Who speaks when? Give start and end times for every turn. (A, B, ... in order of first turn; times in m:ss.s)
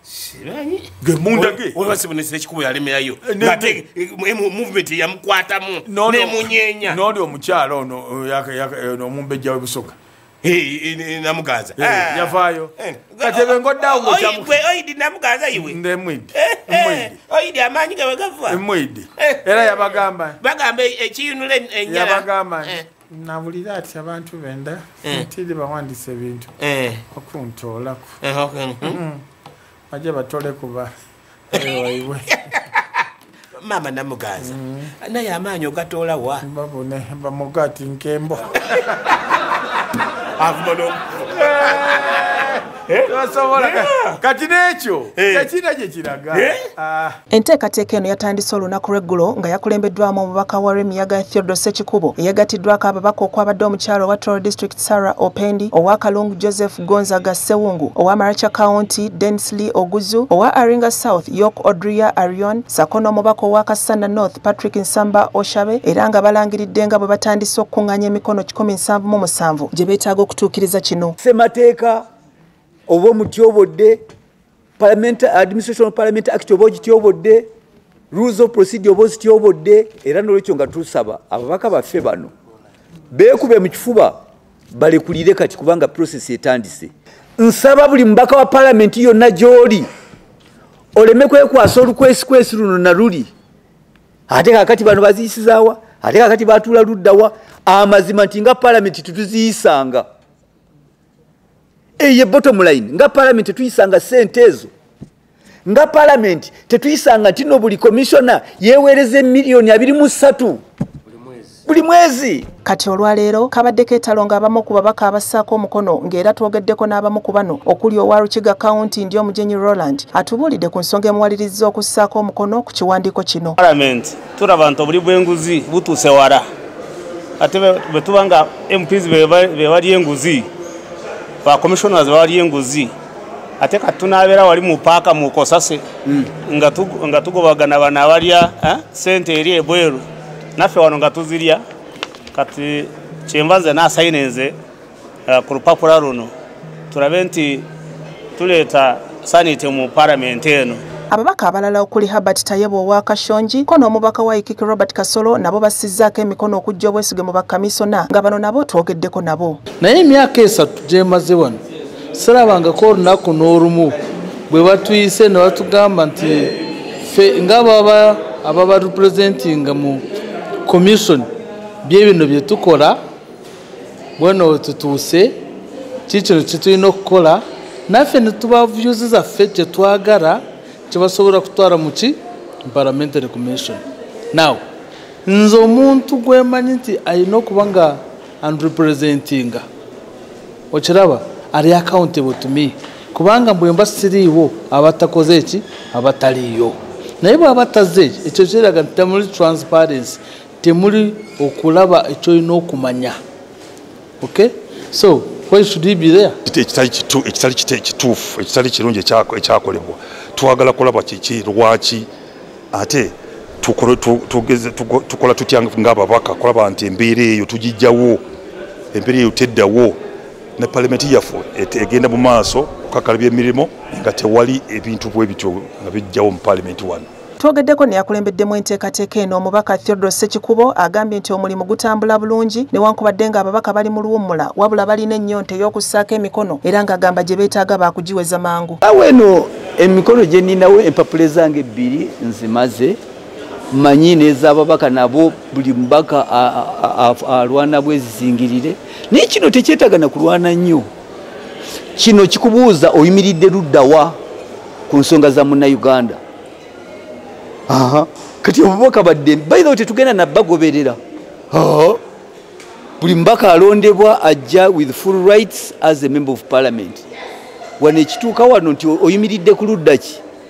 0:00.1-0:07.0 A
0:01.0-0:01.8 B
0:03.2-0:03.8 B
0:05.8-0:10.0 B
0:10.4-0:15.8 A
0:11.8-0:14.6 B
0:15.5-0:17.2 B
0:16.4-0:18.6 A
0:18.5-0:20.4 B
0:19.2-0:22.8 A
0:21.9-0:26.5 B
0:26.6-0:27.0 A
0:27.1-0:28.2 B
0:28.2-0:29.0 A
0:28.8-0:29.2 B
0:29.9-0:30.9 B
0:31.5-0:32.3 B
0:31.5-0:32.0 A
0:32.5-0:32.8 A
0:33.6-0:36.5 A
0:34.4-0:34.9 B
0:36.4-0:38.9 B
0:38.7-0:39.2 A
0:40.4-0:44.2 A
0:41.4-0:47.2 B
0:45.2-0:45.5 A
0:46.3-0:46.6 A
0:47.3-1:11.2 C
1:11.2-1:12.0 D
1:12.9-1:14.0 D
1:14.8-1:17.5 D
1:18.1-1:22.3 D
1:23.1-1:24.2 D
1:24.7-1:29.9 D
1:31.0-1:33.3 D
1:34.3-1:40.1 D
1:42.0-1:44.7 D
1:45.7-1:50.6 D
1:51.6-1:52.5 D
1:52.6-2:03.6 C
2:03.6-2:06.5 E
2:07.4-2:10.5 E
2:11.4-2:12.9 E
2:13.6-2:15.8 E
2:16.4-2:21.6 E
2:22.3-2:24.6 E
2:25.3-2:26.3 E
2:26.9-2:27.7 E
2:28.4-2:30.8 E
2:31.1-2:39.6 C
2:39.8-2:41.6 F
2:42.1-2:44.0 F
2:44.5-2:50.0 F
2:50.6-2:51.3 F
2:51.8-2:53.0 F
2:54.2-2:55.4 F
2:56.1-3:04.6 F
3:05.3-3:09.7 F
3:10.7-3:23.2 F
3:24.2-3:26.4 F
3:26.5-3:32.1 G
3:32.7-3:38.2 G
3:38.9-3:40.0 G
3:40.6-3:47.1 G
3:47.4-3:58.8 C
3:58.8-4:03.0 D
4:03.7-4:10.9 D
4:12.0-4:14.2 D
4:14.9-4:16.2 D
4:17.7-4:21.0 D
4:21.5-4:22.0 D
4:23.0-4:27.0 D
4:27.8-4:30.2 D